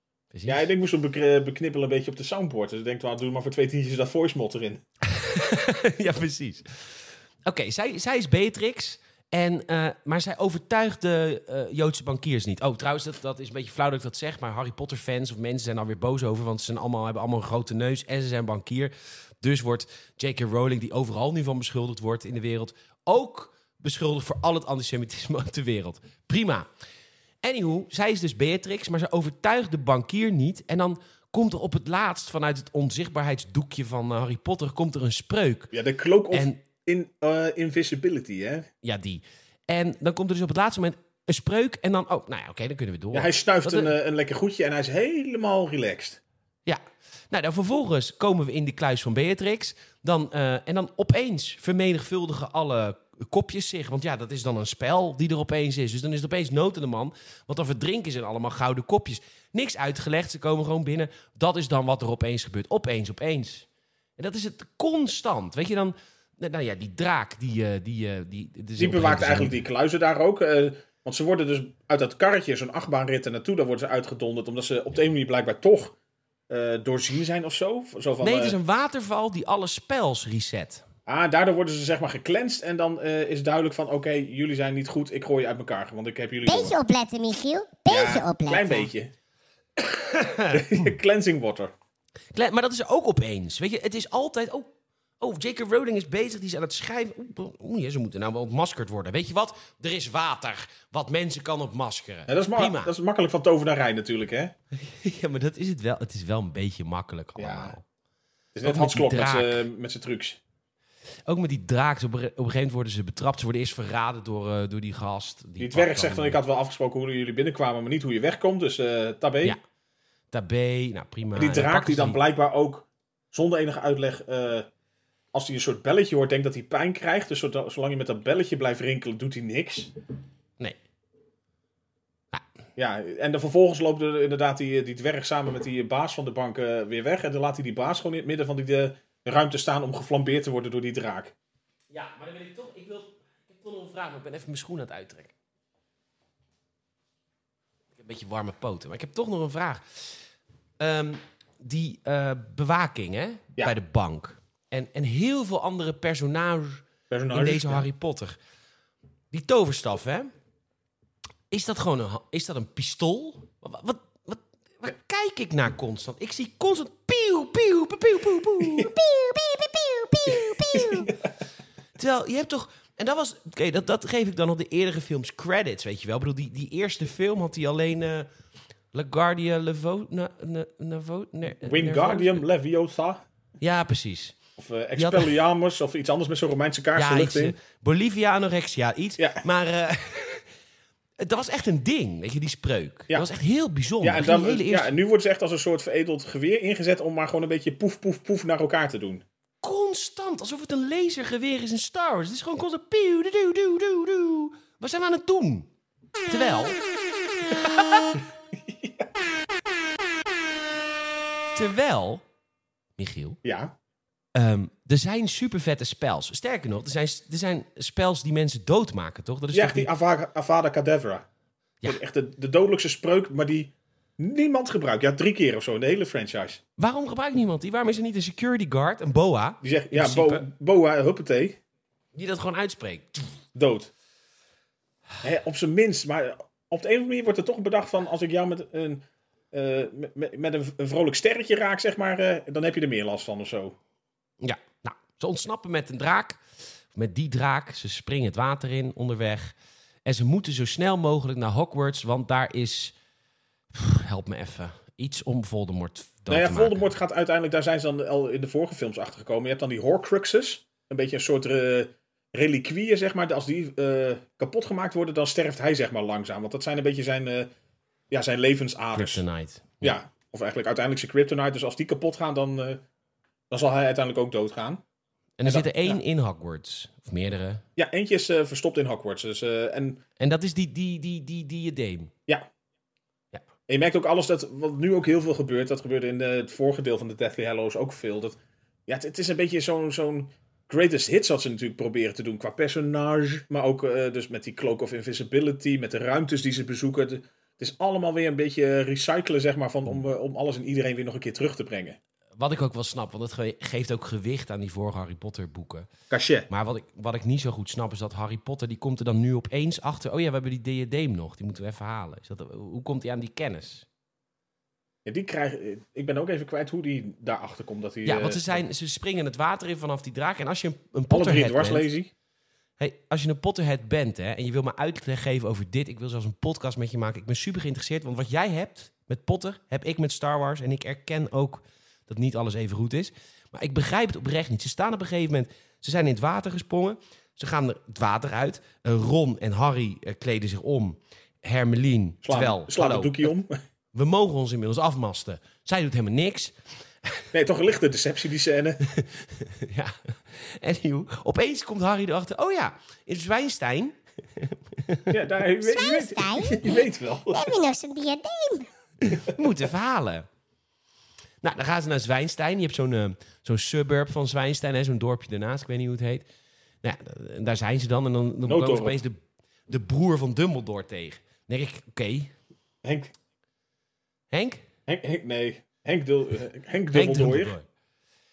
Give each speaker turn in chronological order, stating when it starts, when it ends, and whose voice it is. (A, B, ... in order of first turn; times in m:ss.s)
0:00.3-0:00.7 A
0:00.5-0:04.8 B
0:05.0-0:26.7 A
0:27.4-0:35.7 A
0:35.7-0:38.7 B
0:36.3-0:36.6 A
0:38.8-0:43.9 A
0:43.1-0:46.2 B
0:46.6-1:09.6 A
1:08.8-1:16.0 B
1:16.5-1:18.6 B
1:18.2-1:20.8 A
1:21.1-1:26.8 B
1:26.4-1:28.9 C
1:27.9-1:29.1 B
1:30.0-1:30.7 A
1:30.5-1:31.7 B
1:32.3-1:42.9 A
1:42.3-1:44.5 B
1:44.7-1:47.8 A
1:47.4-1:47.7 B
1:48.6-1:50.4 B
1:48.6-1:49.6 A
1:51.3-1:56.4 A
1:55.6-1:59.6 B
2:00.3-2:02.2 A
2:01.4-2:04.7 B
2:05.3-2:09.9 B
2:12.8-2:21.3 B
2:21.9-2:25.3 A
2:28.0-2:30.2 A
2:30.8-2:38.4 A
2:37.1-2:37.8 B
2:39.3-2:40.3 A
2:41.5-2:48.9 A
2:48.8-2:51.0 C
2:50.5-2:51.2 B
2:50.7-2:51.1 A
2:52.0-2:58.3 A
2:58.9-3:02.4 A
3:01.6-3:03.2 B
3:03.6-3:04.4 A
3:04.6-3:07.6 B
3:05.0-3:05.3 A
3:07.0-3:10.5 A
3:09.2-3:09.4 B
3:11.2-3:14.9 A
3:14.0-3:19.2 B
3:19.6-3:25.7 A
3:26.3-3:26.8 A
3:27.5-3:28.2 A
3:28.6-3:29.1 B
3:31.6-3:32.2 A
3:33.0-3:33.4 A
3:33.4-3:33.8 B
3:34.4-3:39.9 A
3:39.5-3:41.3 B
3:41.9-3:46.6 B
3:46.8-3:50.5 A
3:49.6-3:51.6 B
3:52.1-3:53.3 A
3:53.6-3:53.9 B
3:55.2-4:03.8 B
4:04.4-4:06.4 A
4:06.9-4:13.0 A
4:13.7-4:16.8 A
4:16.3-4:27.5 B
4:28.1-4:29.2 B
4:28.9-4:30.0 A
4:29.8-4:32.8 B
4:33.5-4:34.8 B
4:35.4-4:37.6 A
4:35.4-4:36.0 B
4:37.8-4:40.0 B
4:40.2-4:42.1 A
4:43.7-5:02.0 B
5:02.4-5:05.9 A
5:06.1-5:06.5 B
5:06.5-5:13.9 A
5:15.0-5:18.6 B
5:18.0-5:21.9 A
5:21.1-5:22.1 B
5:22.8-5:43.3 A
5:42.2-5:43.6 B
5:43.9-5:47.2 A
5:47.3-5:48.8 B
5:48.8-5:55.2 A
5:55.1-5:57.5 B
5:55.6-5:58.7 C
5:59.0-6:00.3 A
6:01.4-6:06.3 A
6:06.8-6:12.3 A
6:08.4-6:09.0 B
6:12.8-6:13.1 B
6:14.3-6:14.6 A
6:14.9-6:17.5 B
6:16.9-6:17.7 A